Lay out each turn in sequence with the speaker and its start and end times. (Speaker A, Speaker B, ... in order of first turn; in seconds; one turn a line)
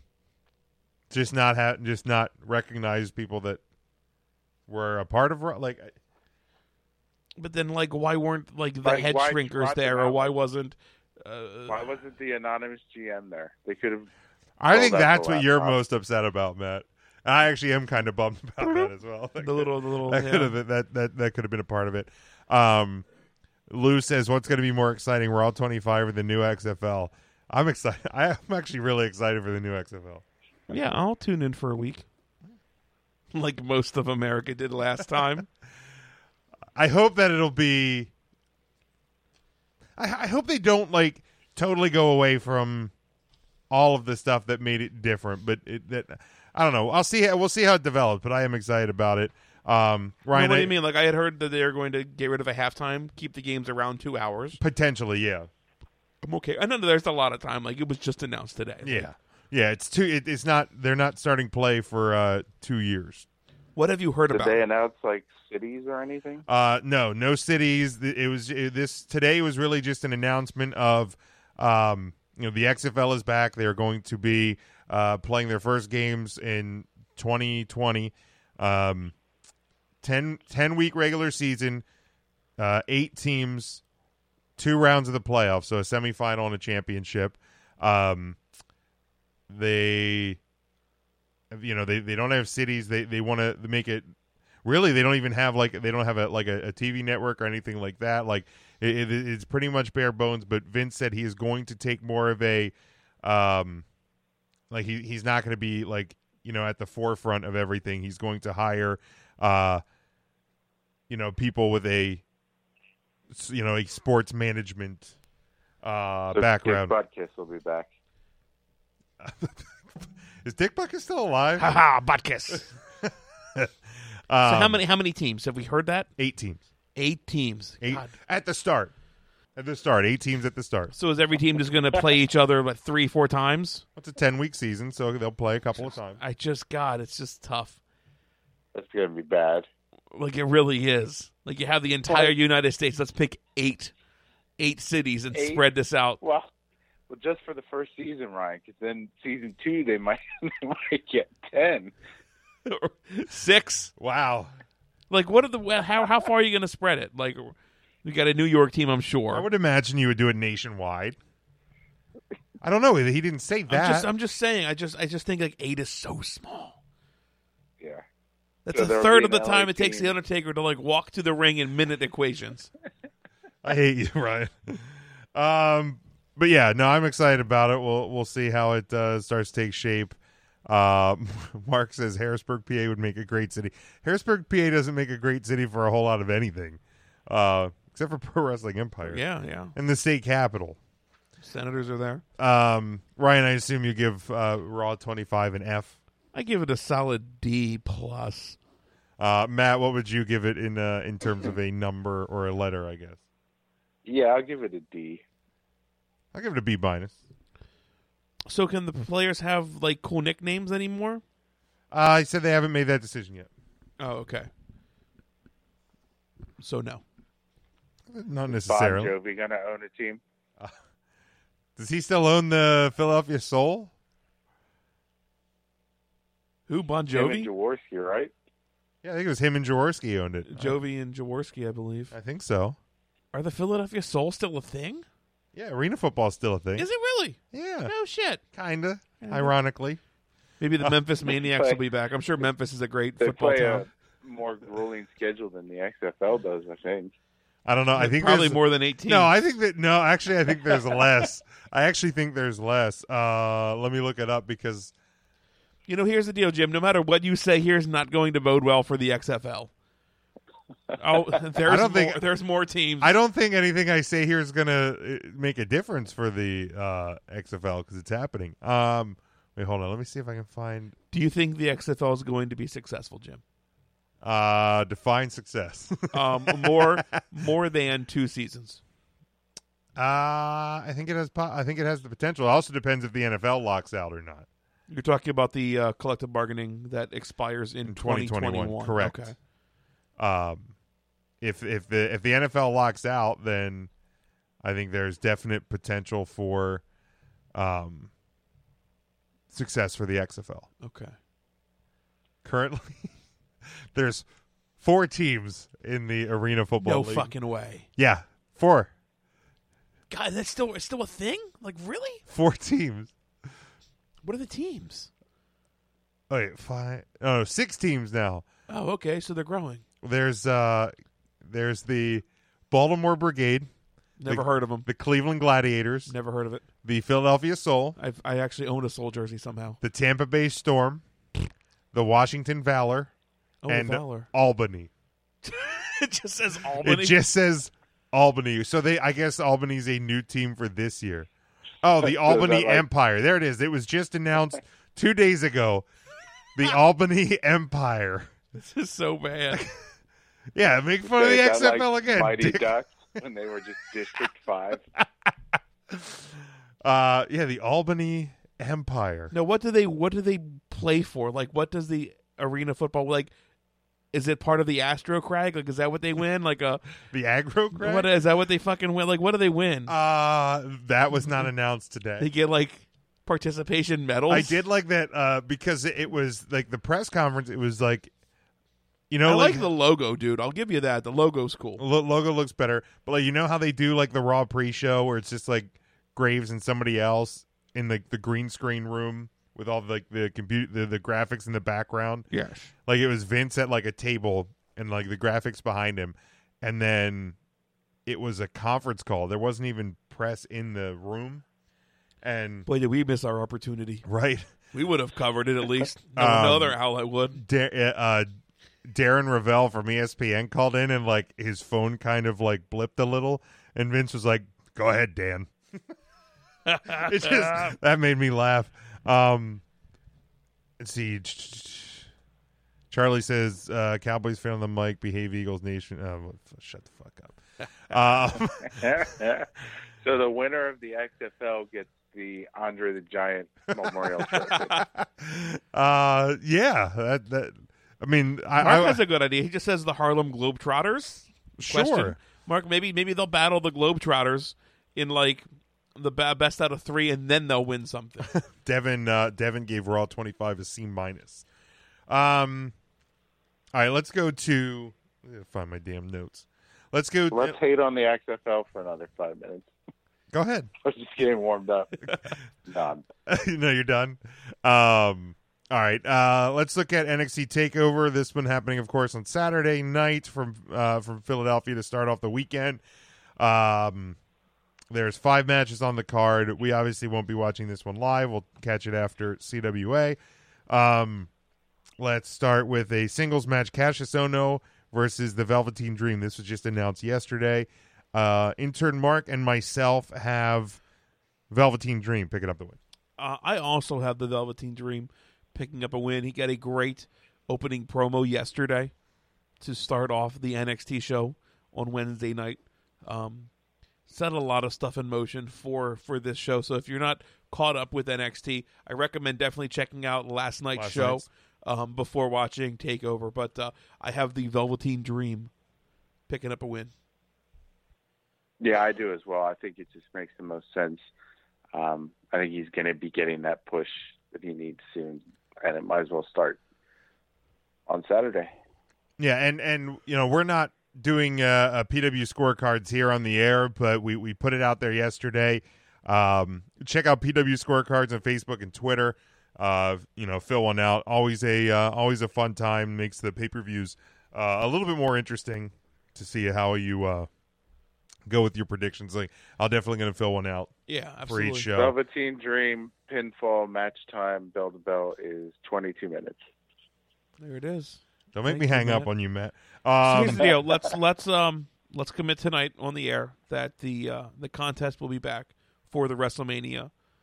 Speaker A: 1.1-3.6
Speaker A: 4.7-6.0
Speaker B: 7.4-11.9
Speaker C: 8.8-10.4
Speaker C: 11.7-14.1
Speaker A: 14.6-23.1
Speaker C: 14.7-15.8
Speaker B: 19.4-20.6
Speaker A: 23.7-30.2
Speaker B: 30.7-32.0
Speaker B: 33.3-35.5
Speaker A: 36.8-38.1
Speaker A: 40.0-42.9
Speaker A: 43.7-50.7
Speaker B: 50.3-54.6
Speaker A: 54.6-55.5
Speaker B: 56.2-59.1
Speaker A: 58.8-63.3
Speaker B: 63.8-64.6
Speaker C: 64.3-66.5
Speaker A: 66.5-79.1
Speaker A: 80.0-81.8
Speaker A: 82.6-83.8
Speaker A: 84.6-88.4
Speaker A: 89.5-90.4
Speaker A: 91.5-94.1
Speaker A: 94.6-103.8
Speaker A: 104.7-109.8
Speaker A: 111.1-112.2
Speaker A: 113.3-115.2
Speaker A: 115.8-117.0
Speaker C: 116.3-117.9
Speaker A: 119.2-121.7
Speaker B: 121.6-122.7
Speaker A: 122.5-123.7
Speaker A: 124.3-124.8
Speaker B: 124.5-126.1
Speaker A: 126.2-126.6
Speaker B: 127.0-128.1
Speaker A: 127.8-128.9
Speaker A: 129.6-130.9
Speaker B: 130.9-133.8
Speaker A: 134.0-136.2
Speaker B: 136.2-137.8
Speaker C: 138.7-139.7
Speaker B: 140.1-143.9
Speaker C: 142.1-142.3
Speaker B: 144.6-146.2
Speaker C: 145.3-145.6
Speaker C: 146.2-146.5
Speaker C: 147.1-151.9
Speaker B: 152.7-153.9
Speaker A: 154.0-154.5
Speaker B: 155.1-159.5
Speaker A: 159.3-161.2
Speaker A: 162.6-164.1
Speaker B: 163.7-166.8
Speaker B: 168.7-172.7
Speaker C: 168.7-170.1
Speaker A: 173.6-189.2
Speaker B: 189.0-189.8
Speaker A: 189.8-190.8
Speaker B: 191.4-192.2
Speaker A: 192.4-195.9
Speaker B: 196.3-198.6
Speaker A: 199.2-203.2
Speaker C: 204.1-205.2
Speaker A: 206.3-207.2
Speaker B: 208.5-211.2
Speaker A: 211.9-213.5
Speaker B: 214.0-214.5
Speaker B: 216.6-217.0
Speaker A: 218.1-219.1
Speaker C: 218.5-220.2
Speaker A: 221.8-223.9
Speaker B: 226.7-227.5
Speaker C: 227.1-228.3
Speaker A: 229.0-230.8
Speaker B: 230.5-232.1
Speaker A: 232.1-232.8
Speaker B: 233.3-235.1
Speaker A: 235.5-236.9
Speaker B: 236.8-238.4
Speaker A: 237.5-237.9
Speaker A: 238.5-240.0
Speaker B: 239.2-239.5
Speaker B: 240.6-243.8
Speaker C: 241.3-241.8
Speaker C: 243.2-247.1
Speaker A: 247.7-254.9
Speaker B: 248.0-249.3
Speaker B: 255.9-259.7
Speaker B: 261.0-263.1
Speaker A: 261.6-262.2
Speaker A: 263.0-270.9
Speaker B: 271.1-273.4
Speaker A: 274.2-277.1
Speaker B: 276.1-278.8
Speaker A: 280.0-284.5
Speaker B: 284.9-289.4
Speaker A: 287.9-289.3
Speaker A: 290.2-290.7
Speaker A: 291.4-293.9
Speaker A: 294.6-296.8
Speaker A: 297.5-298.1
Speaker A: 299.5-300.7
Speaker B: 300.8-301.1
Speaker A: 302.4-303.1
Speaker A: 303.9-304.3
Speaker A: 304.8-307.3
Speaker B: 306.8-307.9
Speaker A: 308.0-308.9
Speaker B: 310.1-312.2
Speaker A: 312.3-313.1
Speaker B: 314.2-315.1
Speaker A: 316.3-318.4
Speaker B: 318.7-319.8
Speaker A: 320.0-323.7
Speaker B: 324.2-324.9
Speaker A: 324.3-326.1
Speaker B: 326.1-326.6
Speaker A: 326.8-328.0
Speaker B: 328.0-329.8
Speaker A: 329.8-331.0
Speaker A: 331.9-333.1
Speaker B: 333.6-334.3
Speaker A: 333.7-334.9
Speaker B: 335.4-337.2
Speaker A: 336.8-341.3
Speaker A: 341.8-345.9
Speaker C: 342.0-342.9
Speaker A: 346.6-348.3
Speaker B: 348.5-349.7
Speaker A: 350.6-352.7
Speaker C: 351.1-354.8
Speaker A: 355.0-355.3
Speaker A: 355.9-359.3
Speaker B: 359.3-363.3
Speaker B: 364.1-366.8
Speaker A: 367.1-368.1
Speaker B: 367.8-369.9
Speaker A: 369.9-372.3
Speaker B: 372.2-374.6
Speaker A: 374.3-378.1
Speaker A: 379.1-379.7
Speaker B: 379.2-381.8
Speaker A: 381.8-392.3
Speaker B: 392.3-392.7
Speaker A: 392.9-397.4
Speaker A: 398.1-401.4
Speaker A: 402.2-402.7
Speaker B: 402.7-404.1
Speaker A: 404.1-404.5
Speaker B: 404.7-407.4
Speaker A: 406.2-406.8
Speaker A: 407.4-408.3
Speaker A: 408.9-415.5
Speaker B: 416.7-417.8
Speaker A: 416.9-419.6
Speaker A: 420.8-422.1
Speaker A: 422.9-429.1
Speaker C: 428.7-429.5
Speaker C: 430.0-434.8
Speaker B: 434.5-434.8
Speaker A: 434.7-439.0
Speaker B: 438.6-448.3
Speaker A: 441.6-442.2
Speaker A: 448.3-451.4
Speaker A: 452.1-452.8
Speaker A: 453.7-457.6
Speaker C: 457.3-459.7
Speaker A: 460.3-460.7
Speaker C: 460.8-462.1
Speaker C: 462.7-463.0
Speaker A: 463.3-472.8
Speaker A: 473.4-474.2
Speaker A: 474.9-480.2
Speaker A: 480.7-481.3
Speaker A: 482.0-490.8
Speaker A: 491.5-492.8
Speaker B: 493.2-498.9
Speaker B: 499.6-503.5
Speaker B: 504.1-515.5
Speaker A: 510.8-511.3
Speaker B: 516.3-516.9
Speaker C: 518.6-521.0
Speaker C: 521.7-526.6
Speaker C: 527.9-528.5
Speaker A: 529.2-547.3
Speaker A: 548.3-550.7
Speaker B: 550.9-551.7
Speaker A: 551.3-552.0
Speaker C: 551.8-556.4
Speaker B: 557.4-559.1
Speaker A: 558.3-560.5
Speaker B: 560.0-566.9